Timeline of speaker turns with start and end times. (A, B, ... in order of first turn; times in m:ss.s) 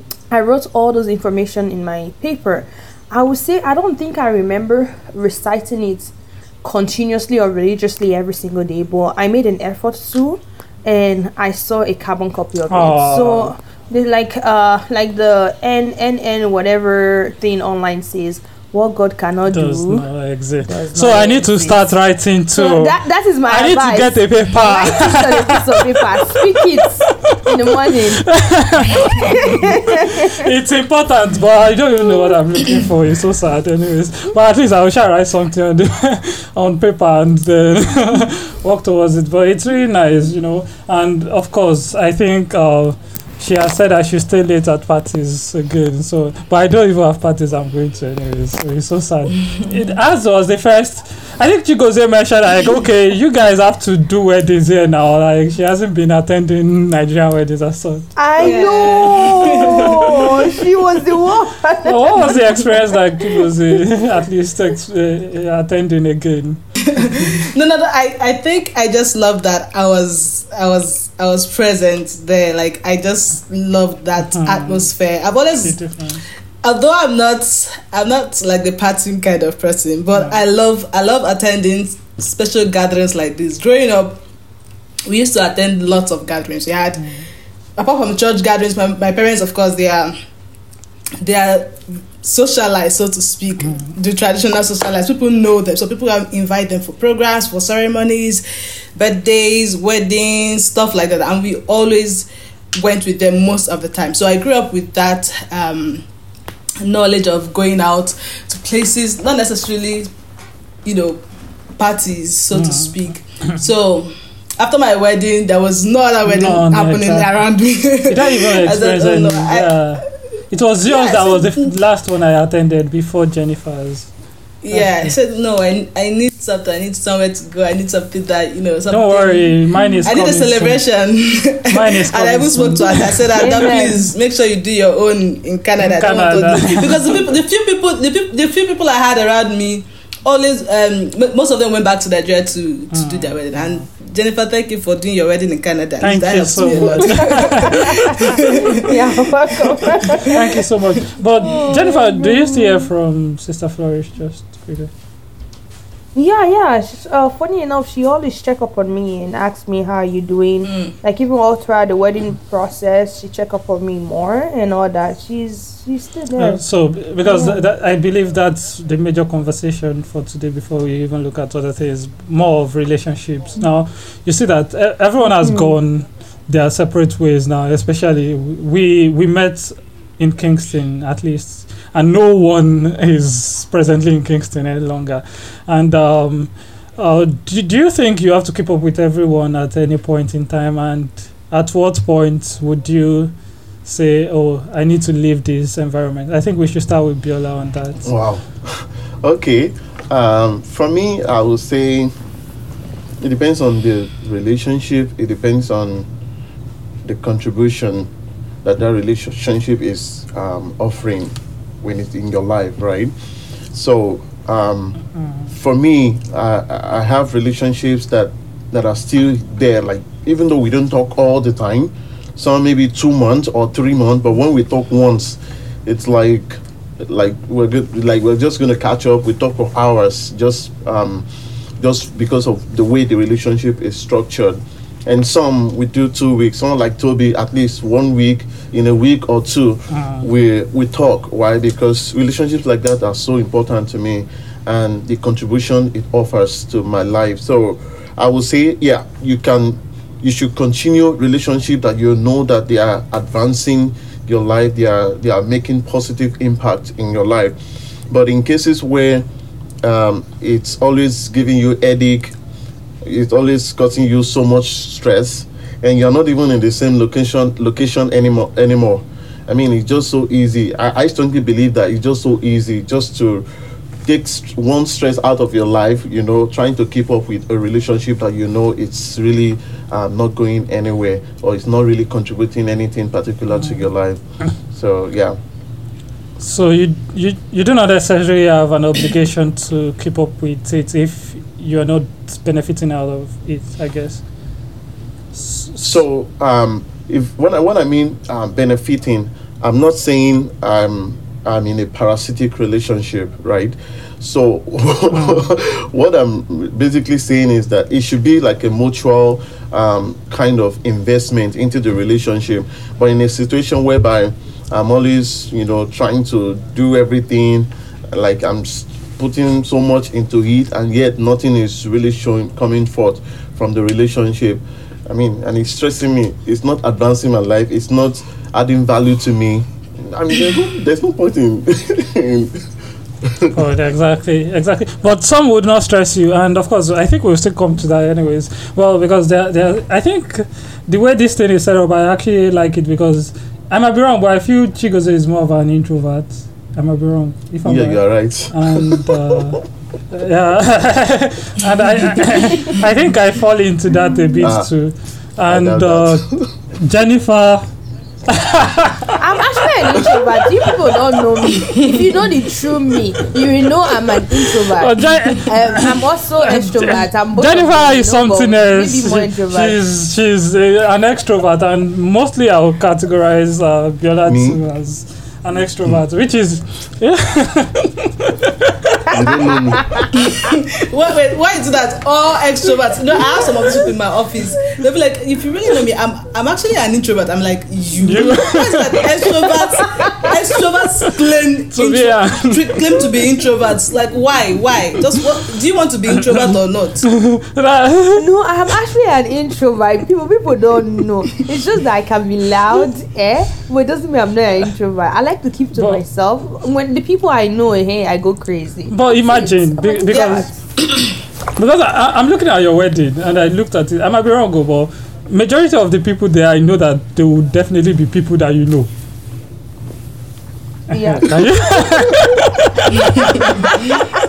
0:00.3-0:20.1 A
0:12.7-0:13.5 B
0:19.5-0:58.1 B
0:20.7-0:21.9 A
0:22.6-0:28.3 A
0:29.1-0:30.4 A
0:58.2-1:03.5 A
0:58.4-1:00.6 C
1:01.8-1:07.3 B
1:06.8-1:15.8 C
1:14.3-1:14.9 B
1:15.6-1:16.2 B
1:16.6-1:24.2 C
1:25.1-1:27.1 C
1:27.0-1:27.2 B
1:27.8-1:30.2 C
1:31.2-1:38.4 C
1:33.6-1:33.9 B
1:39.0-1:46.0 C
1:46.8-1:50.1 C
1:50.8-1:51.2 C
1:51.8-1:59.8 C
1:52.5-1:53.0 B
1:56.3-1:57.3 B
1:58.1-2:04.1 B
2:00.8-2:01.7 C
2:04.6-2:29.3 C
2:04.7-2:05.1 B
2:08.9-2:10.8 B
2:11.7-2:13.2 B
2:13.4-2:14.1 A
2:15.8-2:17.2 B
2:22.9-2:23.8 B
2:26.0-2:28.4 B
2:26.7-2:30.4 A
2:29.9-2:30.3 C
2:30.2-2:34.9 B
2:31.4-2:32.9 A
2:36.2-2:46.6 A
2:40.7-2:40.9 C
2:46.4-3:13.3 B
2:47.2-2:47.6 A
2:55.4-2:55.8 A
3:13.8-3:18.1 B
3:18.0-3:22.1 D
3:23.2-3:26.1 D
3:27.0-3:28.1 D
3:28.6-3:33.1 D
3:33.7-3:51.3 D
3:51.8-4:17.6 D
3:59.9-4:00.3 B
4:18.1-4:19.3 D
4:19.8-4:22.3 D
4:23.0-4:33.5 D
4:34.0-4:45.4 D
4:46.4-4:54.2 B
4:55.3-4:56.0 B
4:55.8-5:32.7 D
5:05.1-5:05.5 B
5:33.2-5:33.5 D
5:33.5-5:57.7 B
5:47.6-5:49.4 D
5:54.4-5:54.7 D
5:55.5-5:56.5 D
5:58.3-5:59.2 B
5:59.2-6:09.8 A
6:01.4-6:01.7 B
6:04.1-6:19.2 B
6:14.3-6:14.6 D
6:19.1-6:19.8 D
6:19.1-6:20.1 A
6:20.2-6:37.1 C
6:23.4-6:23.9 B
6:28.0-6:29.9 B
6:29.8-6:30.3 A
6:31.7-6:33.0 B
6:36.2-6:38.3 B
6:38.2-6:50.5 A
6:45.8-6:46.0 B
6:48.9-6:50.5 B
6:50.1-6:51.2 C
6:51.6-6:58.9 B
7:00.9-7:02.1 A
7:00.9-7:03.9 B
7:03.4-7:03.8 A